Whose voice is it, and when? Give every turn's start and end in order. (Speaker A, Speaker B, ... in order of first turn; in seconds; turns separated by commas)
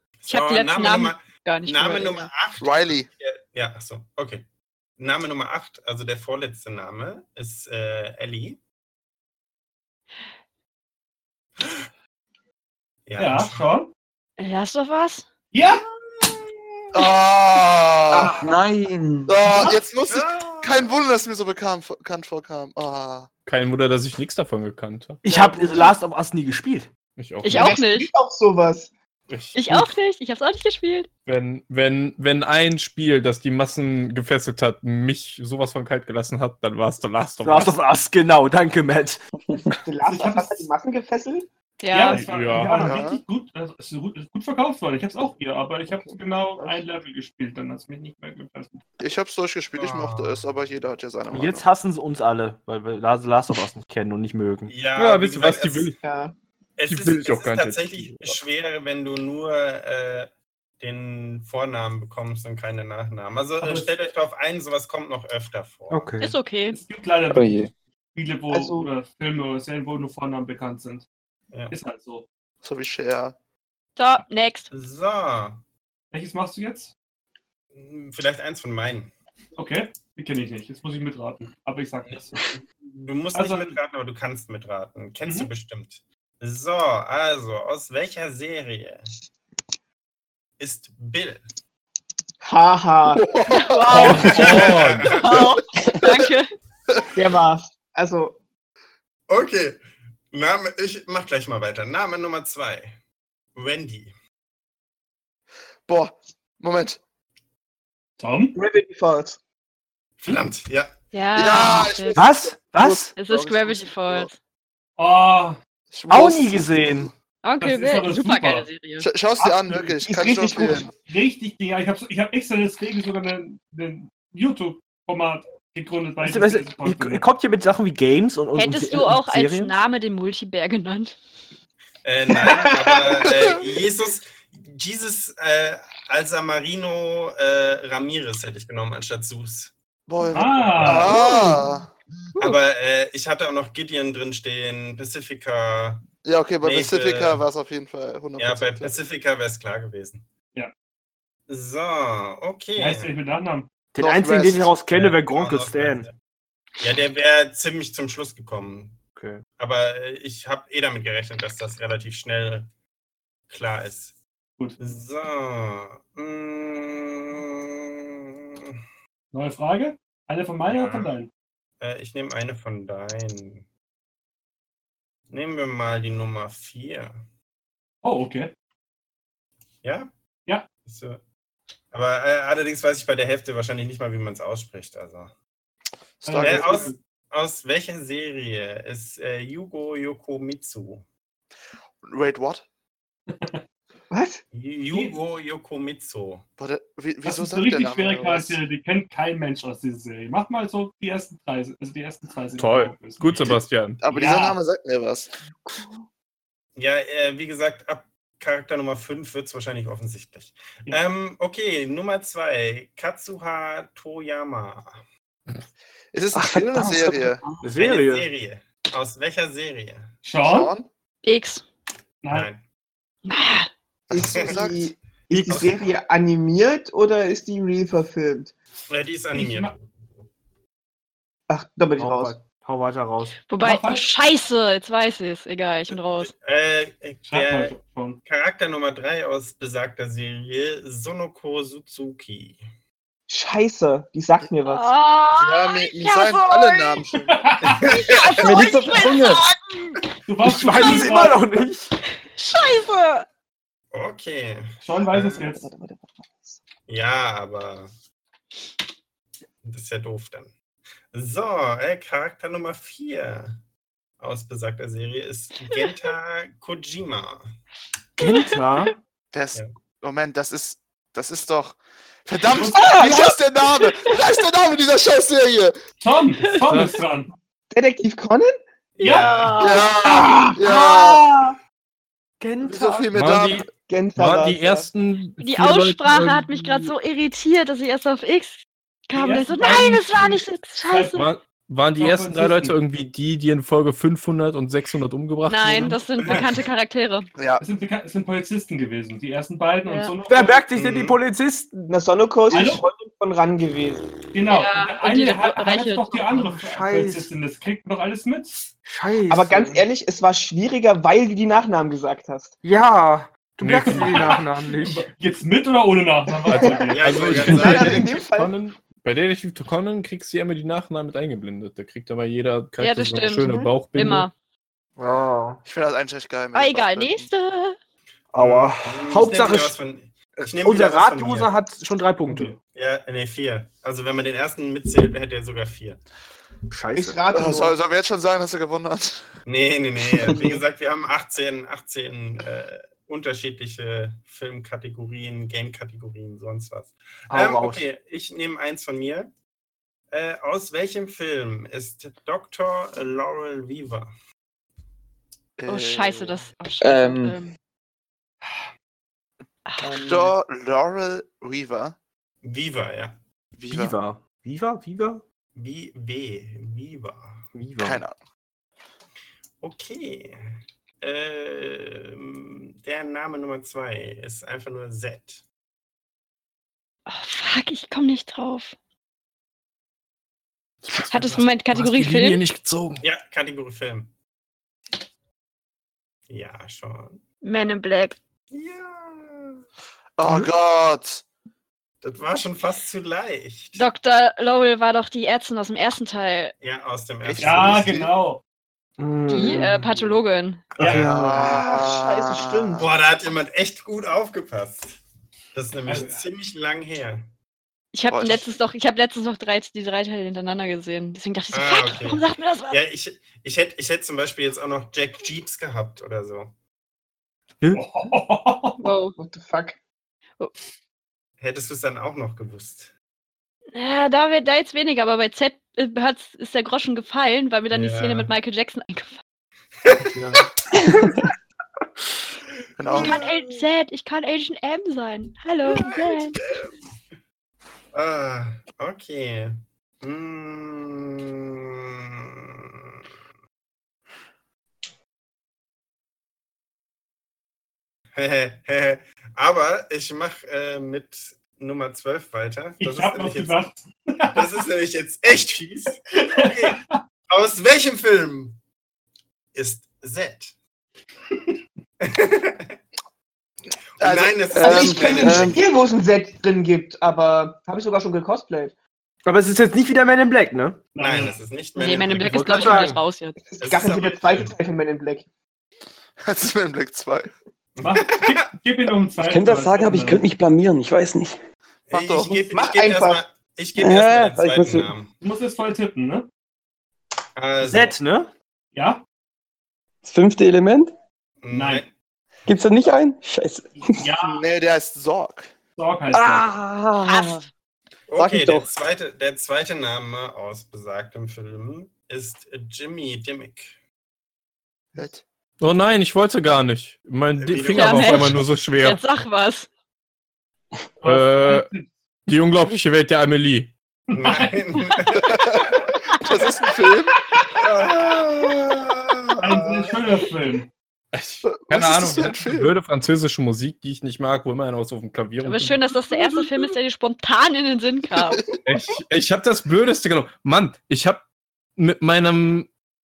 Speaker A: 0.2-4.5, Speaker B: 0.3-2.3, Speaker C: 2.6-3.1, Speaker A: 5.0-8.6, Speaker A: 13.1-13.7, Speaker D: 13.2-13.9, Speaker B: 14.4-15.3, Speaker D: 15.5-15.8, Speaker C: 16.9-18.4, Speaker E: 18.1-19.4, Speaker C: 19.3-23.3, Speaker A: 20.1-20.9, Speaker F: 23.5-25.2, Speaker G: 25.2-26.9, Speaker F: 27.2-27.8, Speaker B: 27.4-28.1, Speaker H: 27.5-28.9, Speaker F: 29.3-29.9, Speaker B: 29.5-31.1, Speaker F: 31.3-37.8, Speaker G: 37.4-39.2, Speaker H: 39.7-41.5, Speaker D: 40.0-40.7, Speaker B: 41.8-42.2, Speaker D: 41.9-48.8, Speaker F: 42.1-42.9, Speaker C: 42.8-43.2, Speaker H: 45.9-46.8, Speaker C: 49.0-51.6, Speaker A: 49.8-50.5, Speaker G: 51.3-54.8, Speaker A: 54.7-55.9, Speaker F: 55.0-56.0, Speaker H: 56.0-56.4, Speaker A: 56.8-60.3, Speaker F: 56.9-58.4, Speaker A: 60.8-66.1, Speaker D: 63.6-63.9, Speaker G: 65.9-66.3, Speaker B: 66.2-66.8, Speaker D: 66.7-71.0, Speaker E: 67.3-67.7, Speaker H: 68.5-68.9, Speaker D: 71.7-72.2, Speaker C: 72.6-73.3, Speaker B: 74.0-74.7, Speaker A: 74.7-75.6, Speaker D: 76.1-76.9, Speaker A: 77.8-79.1, Speaker D: 79.6-82.5, Speaker A: 82.8-89.1, Speaker D: 83.3-83.8, Speaker D: 85.2-85.5, Speaker A: 90.6-91.4, Speaker H: 92.4-93.3, Speaker C: 93.2-94.0, Speaker B: 93.5-96.5, Speaker F: 93.9-95.2, Speaker A: 94.2-95.4, Speaker H: 97.1-98.4, Speaker A: 99.3-99.8, Speaker A: 100.3-103.0, Speaker A: 103.5-104.1, Speaker C: 105.9-107.0, Speaker D: 108.2-108.6, Speaker H: 108.5-109.4, Speaker A: 110.2-110.9, Speaker B: 111.1-112.2, Speaker C: 111.3-114.3, Speaker G: 112.2-113.1, Speaker B: 113.2-114.3, Speaker D: 115.0-115.6, Speaker C: 115.9-117.1, Speaker G: 116.1-117.1, Speaker B: 117.4-119.1, Speaker D: 117.6-118.7, Speaker C: 119.0-120.9, Speaker H: 119.5-120.9, Speaker D: 121.0-127.2, Speaker G: 126.2-129.7, Speaker B: 128.6-131.2, Speaker A: 132.1-139.7, Speaker H: 132.4-133.2, Speaker C: 140.1-141.9, Speaker D: 140.3-141.2, Speaker A: 142.4-146.1, Speaker C: 146.2-148.9, Speaker A: 146.6-147.4, Speaker A: 148.4-150.3, Speaker A: 151.5-153.1, Speaker D: 152.8-153.7, Speaker G: 153.9-156.1, Speaker C: 154.0-154.7, Speaker A: 154.9-156.2, Speaker A: 156.8-159.0, Speaker G: 159.2-159.4, Speaker A: 159.6-162.7, Speaker A: 163.5-164.2, Speaker A: 164.8-168.8, Speaker D: 169.3-171.3, Speaker A: 170.7-171.2, Speaker A: 171.8-173.7, Speaker A: 175.3-177.2, Speaker D: 178.0-178.5, Speaker A: 179.8-180.1, Speaker A: 180.8-181.2, Speaker A: 181.9-185.3, Speaker C: 186.2-186.9, Speaker D: 186.2-187.0, Speaker A: 186.4-191.1, Speaker C: 192.0-192.7, Speaker D: 193.3-193.6, Speaker H: 194.1-194.4, Speaker A: 194.5-196.5, Speaker D: 194.9-195.2, Speaker C: 196.6-198.6, Speaker D: 197.2-204.6, Speaker F: 202.6-204.0, Speaker C: 204.0-205.3, Speaker A: 206.8-215.0, Speaker C: 216.1-217.4, Speaker E: 216.3-217.6, Speaker G: 217.6-218.3, Speaker A: 217.8-220.2, Speaker D: 220.2-220.7, Speaker C: 220.4-220.9, Speaker B: 221.2-221.6, Speaker D: 222.2-222.5, Speaker A: 222.3-222.6, Speaker B: 223.3-223.7, Speaker C: 224.1-224.9, Speaker H: 224.1-228.5, Speaker A: 224.2-224.6, Speaker G: 225.3-225.6, Speaker A: 225.5-225.8, Speaker A: 228.9-229.8, Speaker D: 229.3-229.7, Speaker H: 231.5-232.4, Speaker G: 232.0-233.4, Speaker B: 233.5-236.3, Speaker D: 233.6-234.1, Speaker A: 236.2-242.6, Speaker D: 237.3-238.2, Speaker H: 243.3-244.9, Speaker B: 244.7-247.0, Speaker C: 245.3-247.3, Speaker D: 247.3-248.0, Speaker A: 247.7-248.6, Speaker B: 248.1-250.0, Speaker E: 248.4-249.4, Speaker G: 248.6-249.3, Speaker D: 250.3-251.4, Speaker G: 250.4-251.9, Speaker B: 252.3-253.3, Speaker A: 253.9-255.4, Speaker D: 254.8-255.7, Speaker H: 255.3-256.6, Speaker A: 256.9-257.9, Speaker A: 259.6-260.5, Speaker A: 261.1-263.6, Speaker A: 264.2-267.5, Speaker G: 268.2-268.9, Speaker C: 269.3-275.8, Speaker D: 272.5-273.2, Speaker B: 272.8-273.3, Speaker B: 273.8-274.1, Speaker D: 276.0-277.3, Speaker F: 276.7-276.9, Speaker H: 277.7-278.6, Speaker A: 279.0-279.7, Speaker D: 279.0-279.5, Speaker B: 279.0-281.6, Speaker C: 279.6-281.3, Speaker G: 282.4-283.1, Speaker C: 282.6-283.7, Speaker F: 283.1-286.9, Speaker H: 283.9-284.9, Speaker B: 285.4-291.3, Speaker D: 289.1-291.3, Speaker F: 291.1-296.0, Speaker D: 292.0-292.8, Speaker B: 295.5-297.3, Speaker C: 297.4-297.6, Speaker D: 297.6-300.7, Speaker B: 299.9-300.1, Speaker G: 300.3-301.7, Speaker A: 300.8-301.2, Speaker H: 301.7-304.1, Speaker D: 302.5-302.8, Speaker D: 304.3-308.7, Speaker B: 304.5-306.3, Speaker G: 306.3-307.3, Speaker G: 308.9-309.9, Speaker H: 309.3-312.6, Speaker G: 312.6-315.1, Speaker F: 313.6-314.3, Speaker D: 313.8-317.6, Speaker F: 316.5-324.3, Speaker H: 316.5-316.9, Speaker A: 316.9-318.1, Speaker H: 317.4-318.6, Speaker B: 322.8-324.3, Speaker G: 325.0-325.6, Speaker C: 325.6-327.3, Speaker B: 326.5-327.8, Speaker G: 328.3-329.8, Speaker A: 328.3-331.5, Speaker G: 330.6-332.6, Speaker A: 332.7-336.0, Speaker G: 336.7-337.2, Speaker H: 336.9-337.8, Speaker C: 337.3-339.3, Speaker A: 339.5-349.3, Speaker G: 347.3-347.9, Speaker A: 350.1-354.1, Speaker C: 355.6-356.4, Speaker B: 355.7-357.6, Speaker E: 356.8-357.4, Speaker B: 359.7-360.1, Speaker C: 359.9-362.0, Speaker A: 362.4-363.2, Speaker C: 363.6-364.0, Speaker G: 363.7-365.2, Speaker A: 365.6-367.5, Speaker G: 367.6-368.0, Speaker C: 367.8-368.2, Speaker A: 369.6-370.4, Speaker A: 371.0-375.4, Speaker B: 377.1-378.8, Speaker F: 380.9-383.0, Speaker B: 381.1-382.4, Speaker A: 383.0-384.1, Speaker A: 386.3-387.2, Speaker B: 387.4-388.2, Speaker A: 388.5-389.6, Speaker C: 390.2-391.2, Speaker A: 392.0-393.8, Speaker B: 393.8-396.5, Speaker A: 396.6-397.9, Speaker C: 397.2-398.1, Speaker D: 397.4-398.4, Speaker G: 399.0-399.7, Speaker B: 399.3-400.7, Speaker D: 400.8-401.1, Speaker G: 400.8-401.6, Speaker C: 400.8-402.9, Speaker H: 401.3-402.9, Speaker A: 402.8-405.0, Speaker A: 405.5-407.3, Speaker D: 405.9-406.2, Speaker B: 407.9-412.8, Speaker C: 408.1-408.5, Speaker A: 411.5-416.5, Speaker D: 417.7-418.8, Speaker B: 418.8-419.2, Speaker H: 419.2-419.8, Speaker A: 421.4-422.9, Speaker B: 423.7-429.2, Speaker A: 427.7-428.3, Speaker G: 430.1-430.4, Speaker C: 432.8-433.2, Speaker A: 432.9-433.6, Speaker B: 432.9-436.4, Speaker A: 435.7-436.7, Speaker A: 437.9-442.9, Speaker A: 448.2-453.6, Speaker D: 452.8-454.7, Speaker A: 454.3-458.6, Speaker D: 456.2-457.0, Speaker A: 459.5-460.5, Speaker A: 462.0-462.8, Speaker C: 464.0-465.5, Speaker A: 464.0-465.6, Speaker E: 464.5-465.6, Speaker H: 464.6-468.7, Speaker G: 469.2-470.8, Speaker D: 470.9-471.4, Speaker A: 471.0-472.9, Speaker B: 471.8-473.4, Speaker G: 472.2-473.0, Speaker H: 473.4-475.3, Speaker A: 473.6-474.6, Speaker C: 476.2-477.3, Speaker A: 477.8-478.5, Speaker D: 477.8-480.3, Speaker E: 479.2-481.4, Speaker A: 481.9-485.1, Speaker C: 481.9-482.4, Speaker H: 482.5-483.2, Speaker E: 483.8-484.9, Speaker D: 485.2-486.3, Speaker A: 487.4-488.0, Speaker G: 487.6-488.3, Speaker D: 488.7-489.0, Speaker E: 490.0-490.9, Speaker A: 491.4-491.9, Speaker D: 491.5-491.9, Speaker E: 492.5-494.1, Speaker D: 494.0-494.4, Speaker C: 494.2-495.5, Speaker D: 495.8-496.5, Speaker E: 496.1-497.4, Speaker B: 497.1-497.4, Speaker A: 498.1-503.8, Speaker E: 498.2-498.7, Speaker C: 504.9-505.2, Speaker F: 505.6-509.0, Speaker A: 507.4-508.5, Speaker B: 507.8-509.7, Speaker D: 511.0-511.9, Speaker F: 511.0-511.7, Speaker F: 512.3-513.7, Speaker D: 514.1-514.6, Speaker A: 514.1-515.7, Speaker C: 515.3-515.6, Speaker C: 516.2-517.2, Speaker A: 517.5-520.3, Speaker D: 519.4-520.7, Speaker F: 521.1-525.9, Speaker C: 521.4-522.8, Speaker B: 525.4-528.4, Speaker C: 528.2-528.6, Speaker F: 528.6-531.2, Speaker F: 531.8-532.7